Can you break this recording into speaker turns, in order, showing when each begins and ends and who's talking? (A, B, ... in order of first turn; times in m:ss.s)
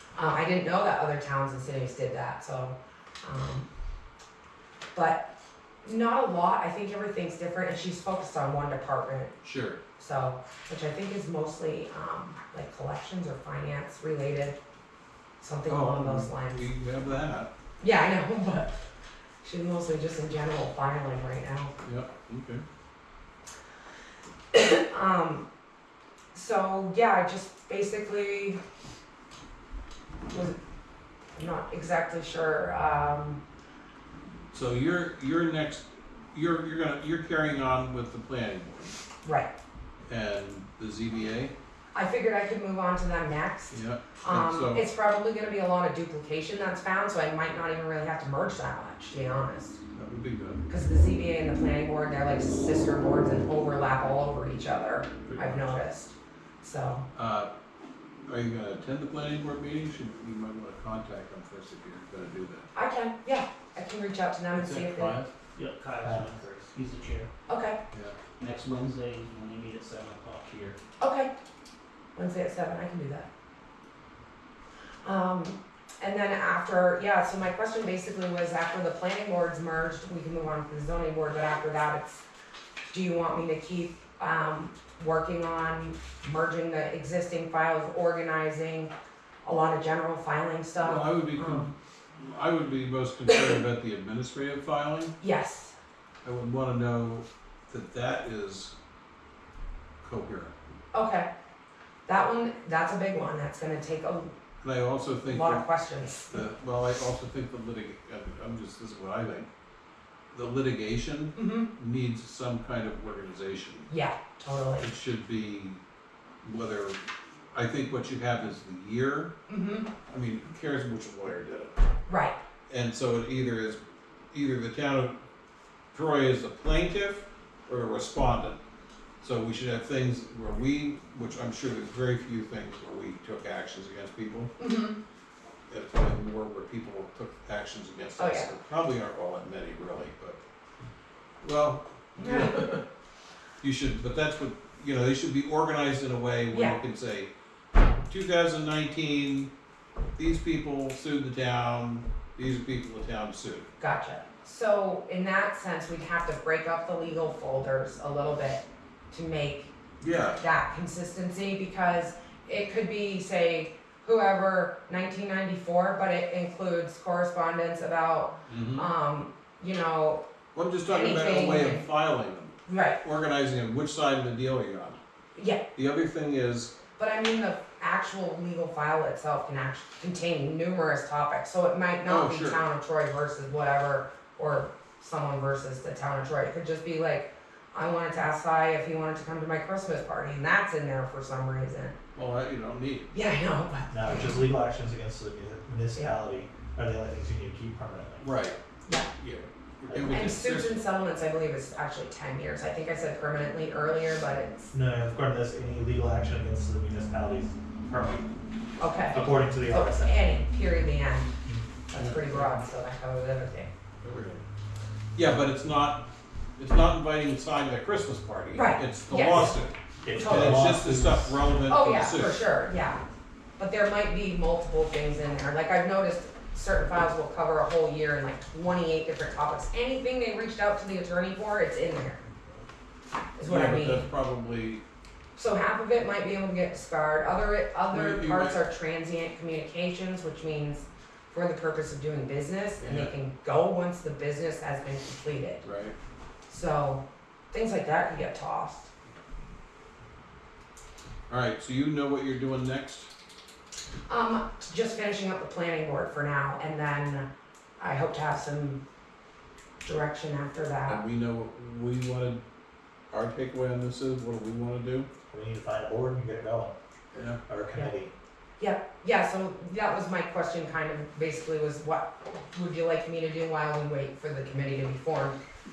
0:00.1-0:03.7 A
0:04.9-0:05.2 A
0:05.8-0:09.3 A
0:09.4-0:09.8 B
0:10.0-0:14.6 A
0:15.4-0:16.7 A
0:15.7-0:17.5 B
0:17.8-0:18.8 A
0:19.4-0:21.7 A
0:21.8-0:22.6 B
0:24.5-0:25.5 A
0:26.3-0:28.6 A
0:30.3-0:30.6 A
0:31.4-0:33.4 A
0:34.5-0:39.0 B
0:39.2-0:39.5 A
0:40.1-0:41.5 B
0:41.9-0:49.8 A
0:43.7-0:44.8 B
0:49.9-0:50.6 B
0:50.7-0:57.1 A
0:55.3-0:55.7 B
0:57.1-0:57.5 B
0:58.3-1:02.7 B
1:02.7-1:05.2 A
1:04.6-1:05.3 B
1:05.6-1:07.3 C
1:06.0-1:06.4 D
1:07.5-1:07.8 A
1:08.4-1:10.8 C
1:11.0-1:11.3 A
1:12.1-1:13.3 A
1:15.0-1:22.2 A
1:22.9-1:28.9 A
1:29.4-1:31.7 A
1:30.8-1:35.1 B
1:35.2-1:35.8 A
1:36.2-1:38.7 B
1:40.0-1:40.6 B
1:40.9-1:41.3 A
1:42.1-1:44.3 A
1:44.6-1:45.7 B
1:45.2-1:46.4 A
1:46.3-1:49.5 B
1:50.3-1:53.9 B
1:51.4-1:51.7 A
1:53.9-1:54.9 A
1:54.8-1:55.8 B
1:56.4-1:57.0 B
1:57.5-1:59.3 B
1:59.5-1:59.9 A
2:00.1-2:01.8 B
2:02.1-2:02.4 A
2:02.7-2:03.8 B
2:04.3-2:05.1 B
2:05.9-2:08.6 B
2:09.2-2:14.5 B
2:14.6-2:15.0 A
2:15.7-2:20.4 B
2:18.2-2:18.5 A
2:21.4-2:22.8 B
2:22.2-2:22.8 A
2:23.6-2:27.3 B
2:26.5-2:26.8 A
2:28.1-2:29.5 B
2:30.2-2:33.7 B
2:33.8-2:39.7 A
2:40.0-2:40.4 B
2:40.4-2:50.2 A
2:48.4-2:48.9 B
2:50.5-2:55.0 B
2:50.8-2:51.8 A
2:52.7-2:53.0 A
2:55.4-2:55.6 A
2:55.8-2:56.7 B
2:57.0-3:11.9 A
3:02.1-3:02.6 B
3:12.1-3:13.1 B
3:13.1-3:14.4 A
3:13.9-3:18.3 D
3:18.2-3:18.6 B
3:19.2-3:20.8 B
3:19.9-3:20.2 D
3:20.0-3:24.7 A
3:24.7-3:28.3 D
3:28.8-3:31.3 A
3:29.1-3:30.2 D
3:31.9-3:33.7 A
3:32.0-3:32.6 B
3:34.0-3:34.4 B
3:35.1-3:36.0 B
3:36.6-3:42.4 B
3:38.5-3:39.6 A
3:40.0-3:41.4 D
3:40.1-3:40.7 A
3:41.7-3:43.0 A
3:43.6-3:52.2 A
3:53.4-3:54.1 A
3:53.4-3:54.8 B
3:55.4-4:05.6 A
3:57.9-3:58.6 B
4:02.8-4:03.1 B
4:05.6-4:05.9 B
4:06.5-4:08.9 A
4:11.3-4:13.1 B
4:14.1-4:17.3 A
4:17.8-4:18.8 A
4:19.8-4:21.0 A
4:20.9-4:22.4 B
4:23.1-4:25.1 B
4:25.3-4:26.8 D
4:27.1-4:27.4 B
4:27.5-4:28.1 D
4:28.6-4:35.4 A